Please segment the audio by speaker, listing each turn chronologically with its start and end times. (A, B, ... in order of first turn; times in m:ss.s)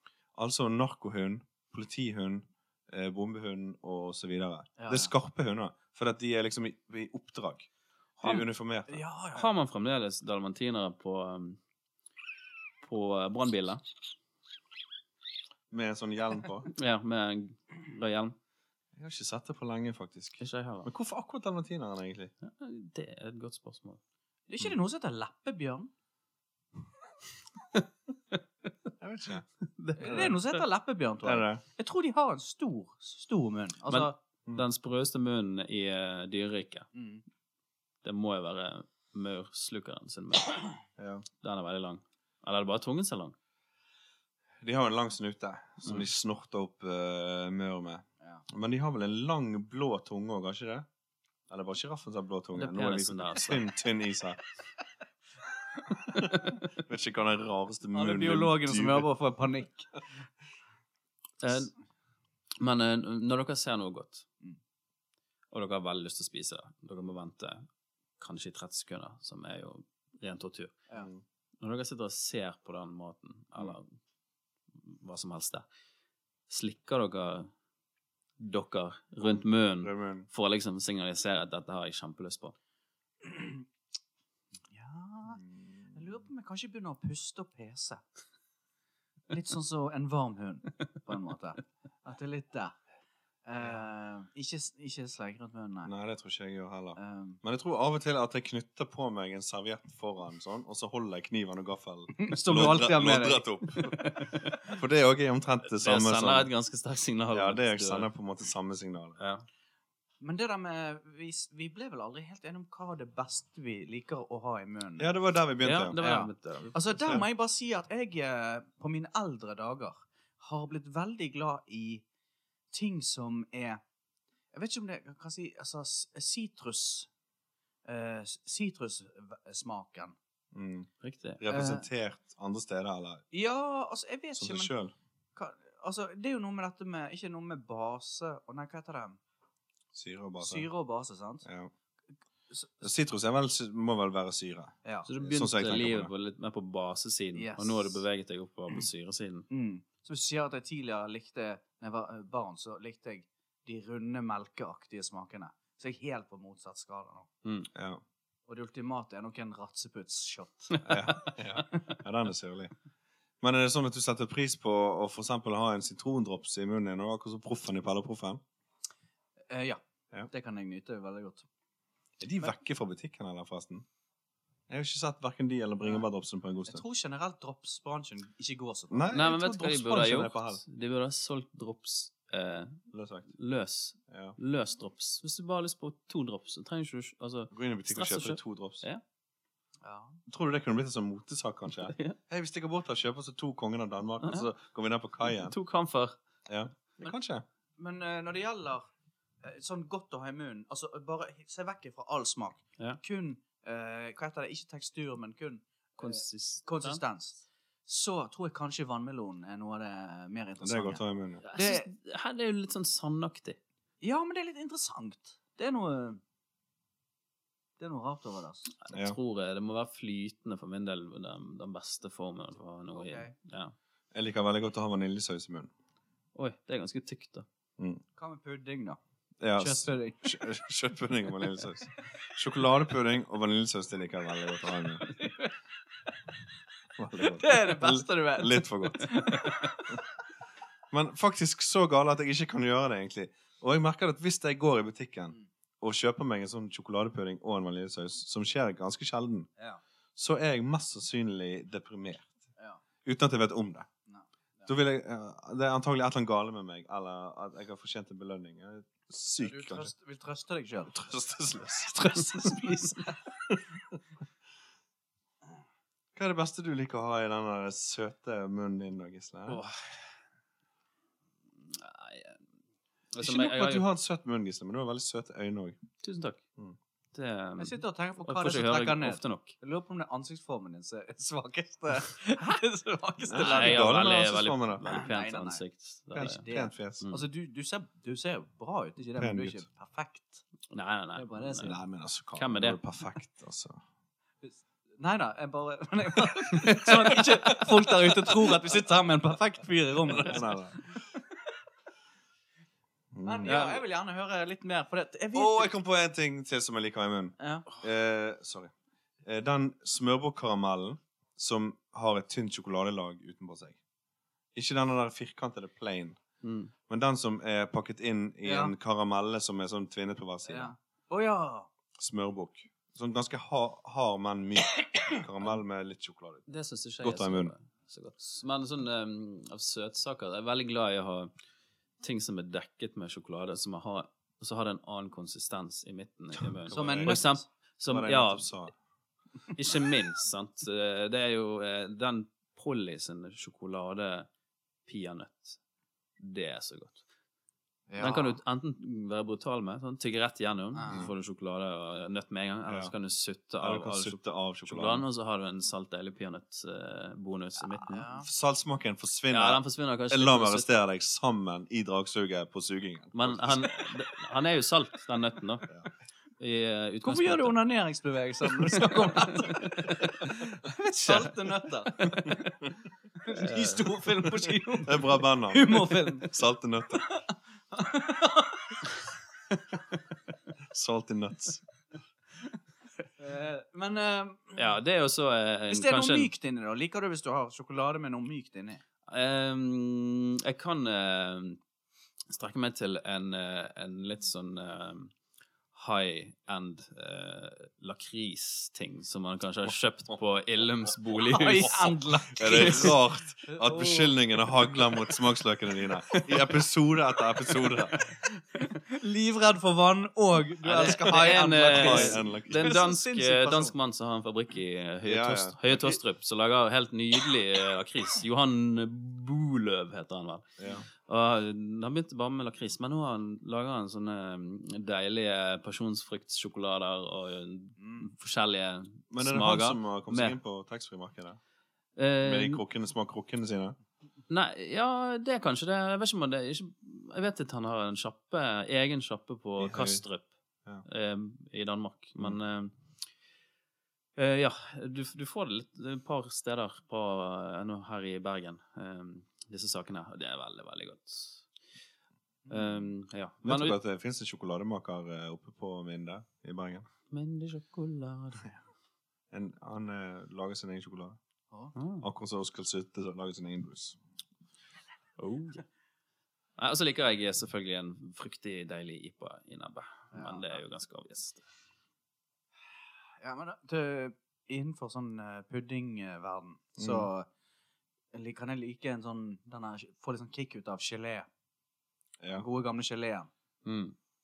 0:00.3-0:07.7 A
0:04.8-0:05.1 B
0:08.2-0:09.0 A
0:08.9-0:09.5 B
0:09.3-0:11.6 C
0:12.8-0:13.8 C
0:15.7-0:16.7 A
0:16.7-0:18.3 C
0:19.0-0:22.3 A
0:20.4-0:20.9 C
0:22.4-0:24.0 C
0:24.5-0:25.9 B
0:29.0-0:29.4 A
0:29.8-0:30.6 C
0:30.0-0:34.2 B
0:30.0-0:30.3 A
0:31.2-0:31.6 A
0:33.9-0:36.9 C
0:36.9-0:37.2 B
0:38.0-0:40.8 C
0:41.0-0:41.2 A
0:41.4-0:43.3 C
0:44.6-0:50.9 A
0:51.5-0:54.4 A
0:52.5-0:53.6 C
0:56.1-0:59.1 A
0:57.9-0:59.9 B
1:01.4-1:01.7 C
1:02.6-1:04.2 C
1:05.5-1:07.6 C
1:08.2-1:10.8 C
1:11.0-1:11.2 A
1:11.6-1:13.9 C
1:14.8-1:15.6 C
1:16.5-1:17.5 C
1:18.4-1:22.5 C
1:19.8-1:20.3 A
1:23.2-1:23.6 B
1:24.7-1:28.0 B
1:25.4-1:26.0 A
1:29.3-1:32.8 B
1:33.4-1:35.9 B
1:35.8-1:46.5 A
1:37.0-1:37.4 B
1:42.2-1:44.4 B
1:43.8-1:44.6 C
1:45.7-1:48.1 C
1:47.3-1:49.2 A
1:49.2-1:49.4 C
1:50.2-1:55.1 B
1:55.0-1:56.0 A
1:55.6-1:57.2 C
1:56.0-2:02.0 B
2:02.7-2:03.8 B
2:04.5-2:07.1 B
2:07.8-2:10.1 B
2:10.5-2:13.2 A
2:11.0-2:11.4 C
2:11.5-2:11.8 B
2:13.3-2:14.7 B
2:14.4-2:14.9 A
2:15.4-2:19.2 B
2:19.9-2:20.7 A
2:20.4-2:21.4 B
2:21.4-2:21.7 A
2:22.5-2:22.8 B
2:22.8-2:26.1 A
2:25.1-2:29.4 C
2:27.3-2:28.0 B
2:29.5-2:37.3 B
2:37.4-2:37.7 C
2:37.7-2:38.0 A
2:38.5-2:40.8 B
2:40.8-2:41.3 C
2:40.8-2:42.7 A
2:43.4-2:48.4 A
2:49.5-2:51.4 B
2:52.2-2:53.8 A
2:54.7-2:56.8 A
2:56.7-2:59.0 B
2:58.9-3:00.6 A
2:59.1-3:09.0 C
3:02.9-3:03.3 A
3:04.1-3:04.4 A
3:07.5-3:08.8 A
3:09.8-3:10.2 B
3:10.3-3:15.6 A
3:11.8-3:12.2 C
3:14.2-3:14.5 C
3:15.2-3:16.2 C
3:16.5-3:17.4 A
3:17.8-3:18.9 B
3:19.4-3:31.9 B
3:26.0-3:27.0 C
3:30.6-3:31.4 A
3:31.4-3:33.6 C
3:34.0-3:36.2 B
3:37.8-3:38.7 B
3:38.8-3:43.7 C
3:38.9-3:39.2 A
3:42.9-3:43.3 B
3:44.1-3:45.7 A
3:46.3-3:47.4 C
3:47.8-3:48.0 A
3:48.2-3:49.0 B
3:49.4-3:55.0 A
3:49.6-3:50.4 B
3:55.1-3:55.5 B
3:57.0-3:59.1 A
3:57.2-4:00.0 B
4:00.9-4:09.5 A
4:10.2-4:12.3 A
4:12.6-4:12.8 B
4:13.0-4:13.9 A
4:14.1-4:14.7 B
4:14.7-4:19.9 A
4:19.4-4:21.1 B
4:20.9-4:22.7 A
4:21.9-4:23.3 B
4:26.1-4:29.6 A
4:29.5-4:30.0 C
4:31.7-4:32.4 C
4:33.1-4:33.8 C
4:33.2-4:35.8 A
4:36.0-4:36.4 C
4:37.1-4:39.5 C
4:37.6-4:44.0 B
4:43.2-4:44.9 A
4:43.4-4:46.4 C
4:44.8-4:45.6 B
4:46.1-4:47.0 A
4:46.1-4:50.4 B
4:49.2-4:49.6 A
4:50.7-4:51.8 C
4:51.2-4:51.8 B
4:51.6-4:53.8 A
4:52.3-4:52.8 C
4:54.4-5:01.0 B
5:00.0-5:00.8 A
5:03.1-5:03.6 A
5:03.2-5:05.7 B
5:03.4-5:03.8 C
5:05.3-5:08.7 A
5:07.4-5:07.7 B
5:09.2-5:13.8 A
5:14.5-5:16.2 A
5:16.4-5:16.7 C
5:16.9-5:20.7 A
5:18.4-5:18.7 B
5:20.4-5:21.7 B
5:22.0-5:26.5 A
5:26.5-5:31.3 C
5:27.0-5:27.5 A
5:32.0-5:38.6 C
5:36.6-5:37.2 A
5:36.7-5:37.4 B
5:37.9-5:38.7 A
5:39.5-5:44.3 C
5:44.9-5:45.6 C
5:46.2-5:47.0 C
5:47.9-5:48.4 B
5:48.0-5:58.1 C
5:50.7-5:51.1 B
5:52.7-5:52.9 A
5:53.6-5:55.0 A
5:57.6-5:58.3 B
5:58.2-6:03.7 A
5:59.3-6:00.7 C
6:03.1-6:05.7 C
6:06.4-6:07.6 C
6:07.0-6:12.4 B
6:08.8-6:12.7 C
6:13.2-6:16.4 B
6:13.3-6:14.5 C
6:14.8-6:17.0 A
6:16.9-6:18.9 B
6:20.7-6:21.6 A
6:23.2-6:24.7 B
6:24.6-6:26.3 C
6:25.7-6:28.8 B
6:29.1-6:31.6 C
6:32.3-6:35.1 C
6:35.7-6:43.0 C
6:41.3-6:43.0 B
6:42.3-6:48.0 A
6:43.5-6:44.1 B
6:46.0-6:46.6 C
6:48.6-6:53.7 B
6:50.6-6:52.8 A
6:50.7-7:00.5 C
6:55.0-6:56.0 A
7:00.6-7:00.8 A
7:01.0-7:10.4 C
7:07.8-7:08.1 B
7:09.1-7:11.4 A
7:12.0-7:12.6 C
7:12.2-7:13.8 A
7:14.3-7:20.3 C
7:19.6-7:20.0 A
7:20.8-7:22.7 C
7:24.2-7:31.4 C
7:32.4-7:32.9 B
7:32.5-7:33.8 C
7:33.4-7:36.9 A
7:37.1-7:38.5 C
7:39.3-7:41.2 A
7:41.7-7:42.0 C
7:42.0-7:44.0 A
7:45.2-7:45.6 C
7:46.6-7:51.4 C
7:50.1-7:50.6 B
7:53.2-7:57.3 B
7:56.8-7:57.1 A
7:58.1-8:01.3 B
8:02.2-8:02.4 A
8:02.3-8:03.3 B
8:03.6-8:03.9 C